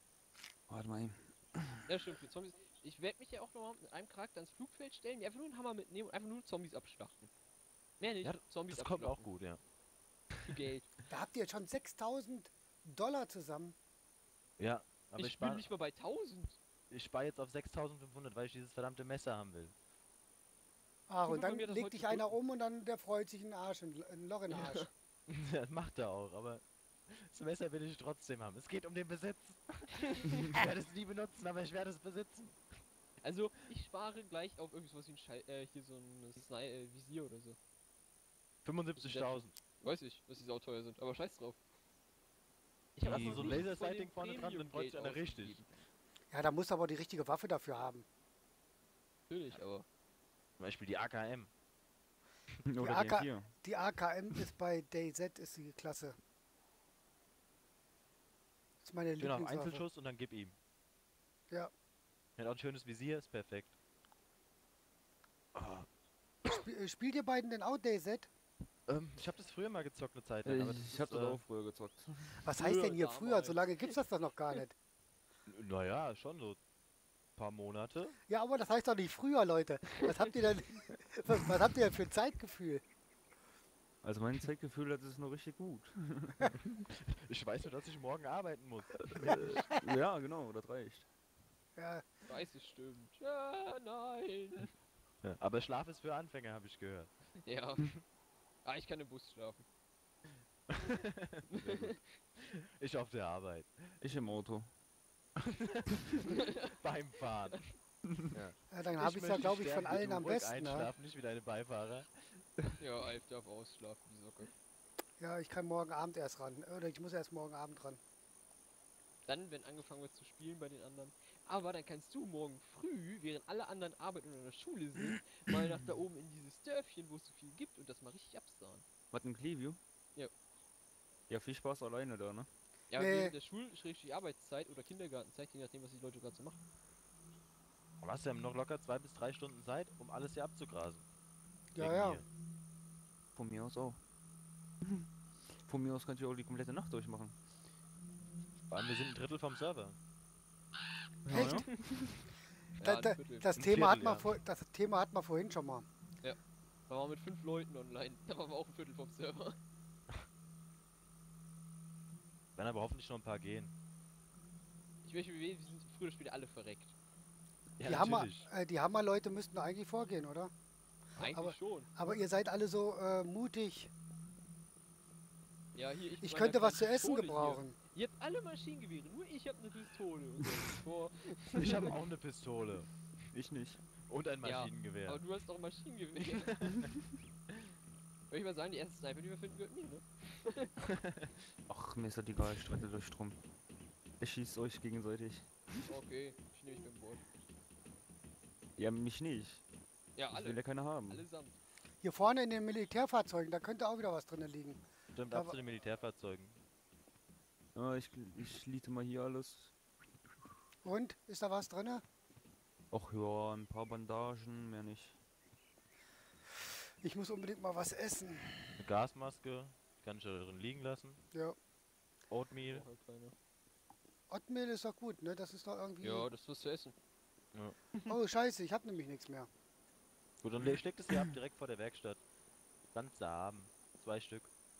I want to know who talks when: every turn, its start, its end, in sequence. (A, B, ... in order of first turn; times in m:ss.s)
0:00.7-0:01.8 A
0:01.8-0:07.3 B
0:08.0-0:09.3 B
0:08.2-0:09.6 C
0:10.5-0:10.9 B
0:11.1-0:13.8 D
0:14.6-0:15.6 C
0:15.2-0:16.6 B
0:16.9-0:19.7 C
0:21.1-0:24.9 D
0:21.2-0:22.3 B
0:24.5-0:24.9 B
0:25.3-0:32.6 C
0:33.2-0:37.6 B
0:38.6-0:39.6 C
0:39.0-0:41.6 B
0:43.0-0:45.7 B
0:43.0-0:45.6 C
0:46.3-0:48.0 D
0:49.3-0:49.9 B
0:50.6-0:51.5 C
0:52.7-0:53.5 A
0:52.8-0:56.2 D
0:58.8-0:59.8 D
0:59.2-1:00.6 C
1:02.4-1:03.8 C
1:05.5-1:05.9 C
1:06.4-1:08.3 D
1:08.9-1:11.4 C
1:10.4-1:12.4 A
1:12.4-1:14.7 D
1:12.6-1:13.9 B
1:15.5-1:16.6 C
1:17.4-1:18.2 C
1:18.3-1:22.8 D
1:24.0-1:26.6 A
1:27.1-1:29.6 C
1:29.3-1:31.1 A
1:31.8-1:32.0 D
1:32.3-1:34.7 B
1:35.2-1:37.1 C
1:37.4-1:37.9 B
1:38.6-1:39.6 B
1:40.7-1:41.8 C
1:41.5-1:42.0 B
1:42.4-1:44.0 C
1:44.0-1:44.7 A
1:45.4-1:47.6 C
1:46.3-1:46.7 B
1:48.3-1:52.4 C
1:48.7-1:50.9 D
1:52.8-1:54.5 B
1:55.2-1:58.0 D
1:59.2-2:08.8 B
2:09.1-2:09.8 A
2:11.3-2:12.5 A
2:12.9-2:16.6 B
2:13.0-2:13.3 D
2:18.0-2:21.1 C
2:21.7-2:22.2 D
2:21.8-2:22.2 C
2:23.3-2:24.0 A
2:25.5-2:27.4 A
2:28.7-2:30.0 C
2:31.2-2:31.8 A
2:31.3-2:31.6 D
2:32.8-2:33.5 B
2:32.8-2:35.9 D
2:33.6-2:34.3 C
2:36.9-2:39.6 B
2:42.6-2:43.7 C
2:45.0-2:46.9 B
2:47.8-2:48.5 C
2:47.8-2:50.5 D
2:51.2-2:51.9 B
2:51.2-2:53.9 D
2:55.7-3:01.8 B
2:56.2-2:57.8 D
3:01.6-3:02.9 C
3:03.3-3:03.8 A
3:04.0-3:05.2 C
3:04.4-3:06.5 B
3:06.3-3:06.9 C
3:08.3-3:10.7 B
3:11.7-3:13.4 A
3:14.2-3:15.5 A
3:15.9-3:17.2 B
3:18.8-3:19.6 A
3:20.2-3:21.6 B
3:20.3-3:21.2 A
3:22.0-3:25.5 D
3:25.1-3:26.6 C
3:27.7-3:29.7 A
3:30.8-3:32.0 D
3:32.9-3:35.2 A
3:37.0-3:38.8 D
3:38.8-3:41.2 C
3:42.3-3:42.8 C
3:42.6-3:43.3 B
3:44.3-3:46.3 D
3:46.0-3:46.9 B
3:48.1-3:49.5 D
3:50.4-3:52.2 C
3:52.9-3:54.5 C